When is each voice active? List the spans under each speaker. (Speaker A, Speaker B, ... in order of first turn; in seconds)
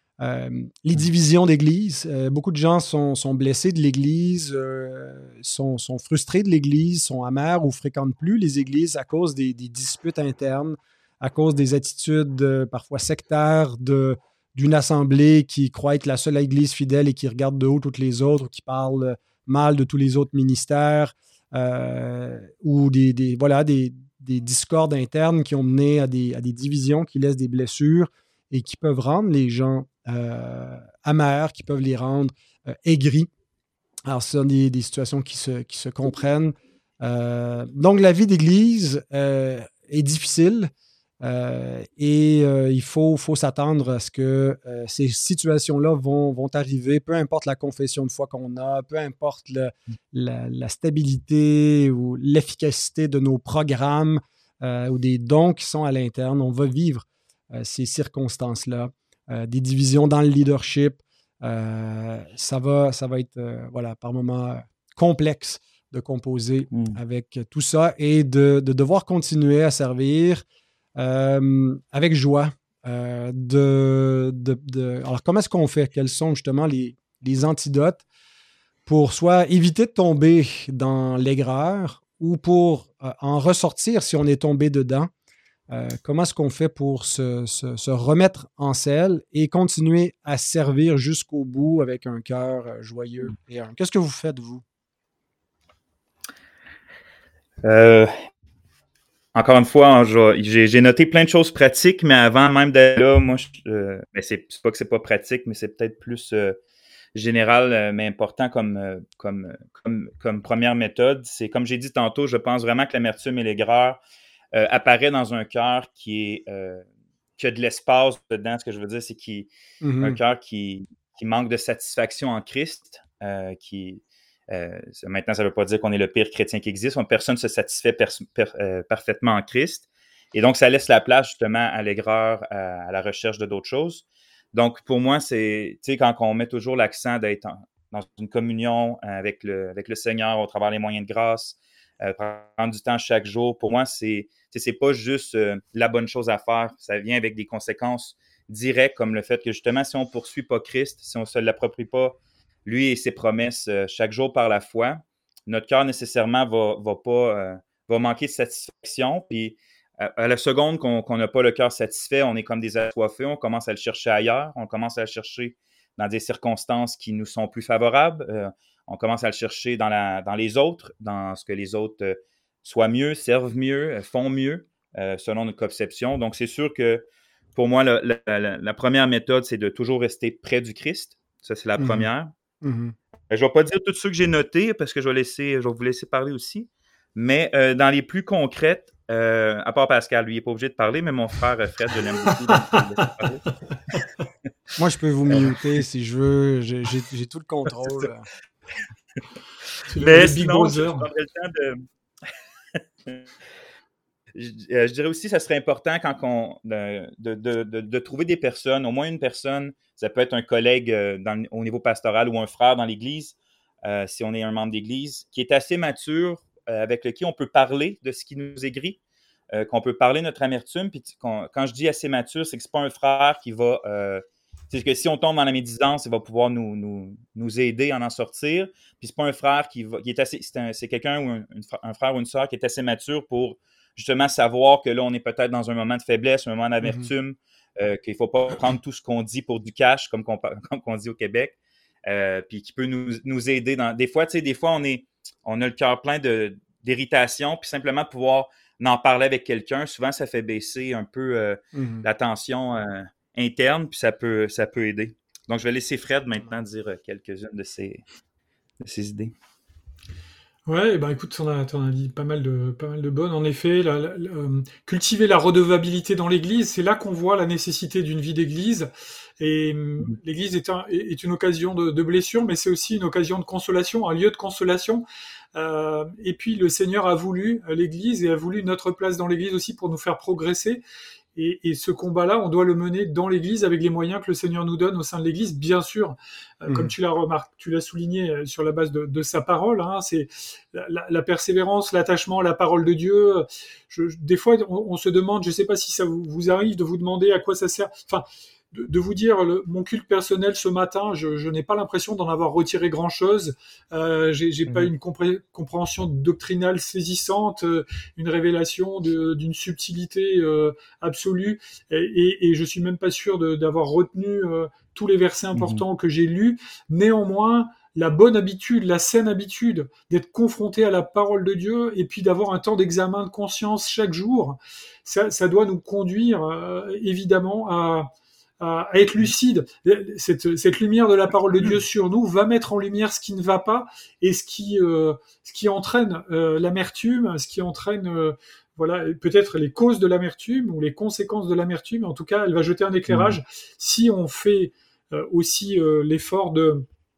Speaker A: 0.2-33.3, 34.1-40.7, 41.2-70.4, 71.0-78.0, 78.8-85.1, 85.7-94.6, 119.8-120.2, 181.8-182.1, 182.6-182.9, 194.8-198.2, 236.8-237.1, 251.7-252.0, 286.7-286.9
Speaker B: 66.7-67.0, 97.6-98.1, 99.3-106.6, 107.1-114.0, 114.5-116.8, 117.4-119.5, 120.0-177.0, 177.5-182.3, 183.3-193.4, 199.9-201.8, 204.3-219.0, 219.5-241.6, 242.1-258.0, 258.8-259.3, 315.6-315.8, 343.1-343.4
Speaker C: 199.9-201.1, 260.7-280.8, 281.4-328.1, 328.6-346.9